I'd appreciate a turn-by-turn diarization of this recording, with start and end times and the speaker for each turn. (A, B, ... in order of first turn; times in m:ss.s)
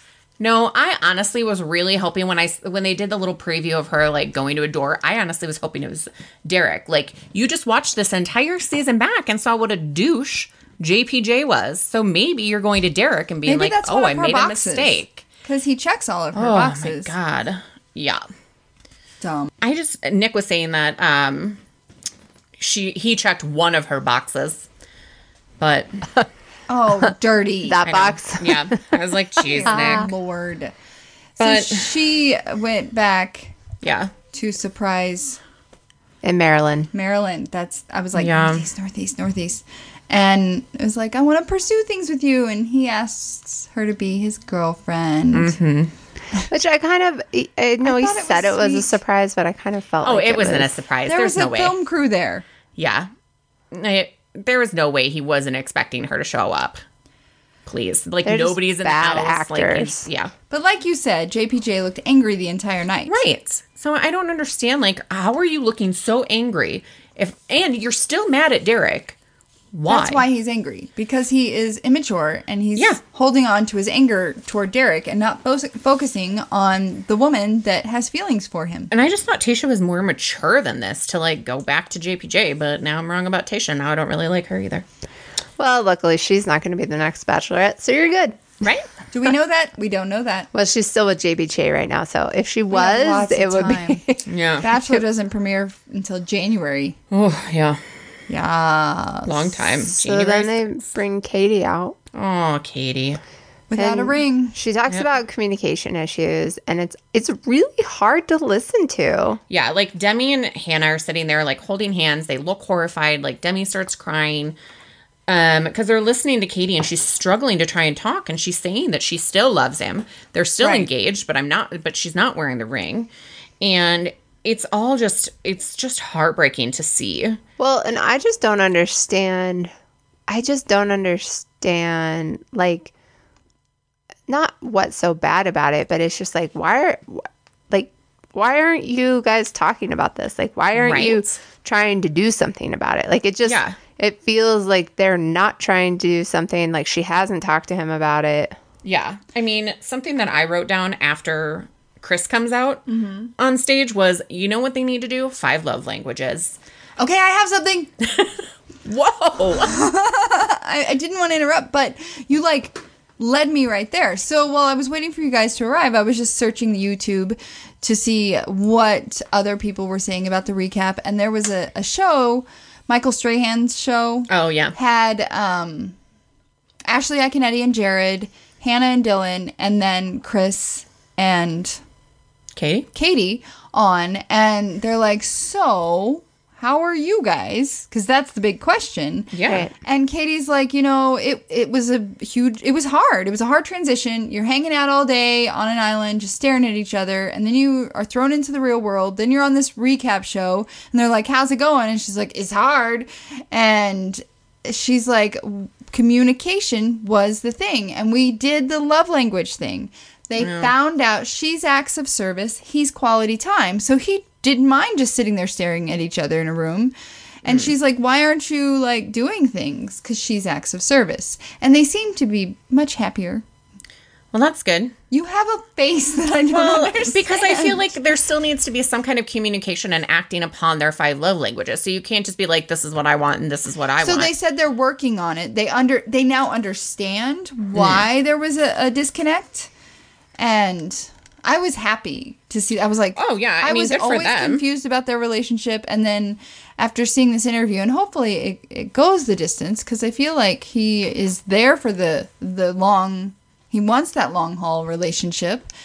0:00.4-0:15.2 A
0:13.5-0:17.1 B
0:16.4-0:18.2 A
0:19.2-0:19.5 B
0:19.6-0:21.6 A
0:22.6-0:24.7 A
0:25.6-0:26.1 A
0:26.7-0:27.8 B
0:27.6-0:28.8 C
0:27.8-0:30.1 A
0:29.4-0:30.7 B
0:29.7-0:30.1 C
0:31.4-0:32.0 A
0:31.4-0:33.6 B
0:33.8-0:34.1 A
0:34.3-0:35.4 B
0:36.2-0:36.9 C
0:36.9-0:45.6 B
0:38.2-0:38.7 A
0:45.3-0:45.9 A
0:46.5-0:50.8 C
0:47.8-0:49.0 B
0:50.0-0:51.8 A
0:51.1-0:52.4 B
0:52.8-0:53.1 A
0:53.7-0:56.8 A
0:57.7-1:00.3 A
0:58.2-1:00.1 C
1:00.5-1:03.2 B
1:03.1-1:09.2 A
1:09.7-1:10.2 A
1:09.9-1:18.9 B
1:18.9-1:24.8 A
1:25.6-1:28.6 C
1:29.1-1:30.5 B
1:30.5-1:34.3 C
1:32.7-1:34.0 B
1:34.3-1:34.7 A
1:34.6-1:37.0 B
1:37.1-1:37.8 A
1:38.3-1:39.8 B
1:39.3-1:40.8 A
1:40.0-1:42.0 C
1:42.1-1:43.2 A
1:43.7-1:44.6 B
1:43.8-1:49.4 C
1:49.5-1:54.6 A
1:55.3-2:03.1 A
2:00.6-2:00.9 B
2:03.6-2:07.4 A
2:07.6-2:09.7 C
2:10.3-2:12.9 C
2:14.3-2:28.6 C
2:20.8-2:21.2 A
2:23.4-2:23.8 A
2:28.8-2:32.9 A
2:32.9-2:33.3 B
2:33.4-2:36.6 A
2:37.0-2:38.0 B
2:38.0-2:38.3 A
2:38.8-2:39.9 A
2:39.6-2:56.0 B
2:54.3-2:54.8 A
2:56.9-3:01.8 B
3:02.6-3:02.9 A
3:02.9-3:36.9 B
3:09.3-3:09.7 A
3:09.5-3:09.7 C
3:30.4-3:30.7 A
3:37.4-3:43.4 B
3:37.5-3:37.7 A
3:44.3-3:44.9 A
3:45.1-3:47.9 B
3:46.5-3:54.3 A
3:54.0-3:59.7 B
3:57.7-3:58.1 A
4:00.4-4:15.7 B
4:03.2-4:04.6 A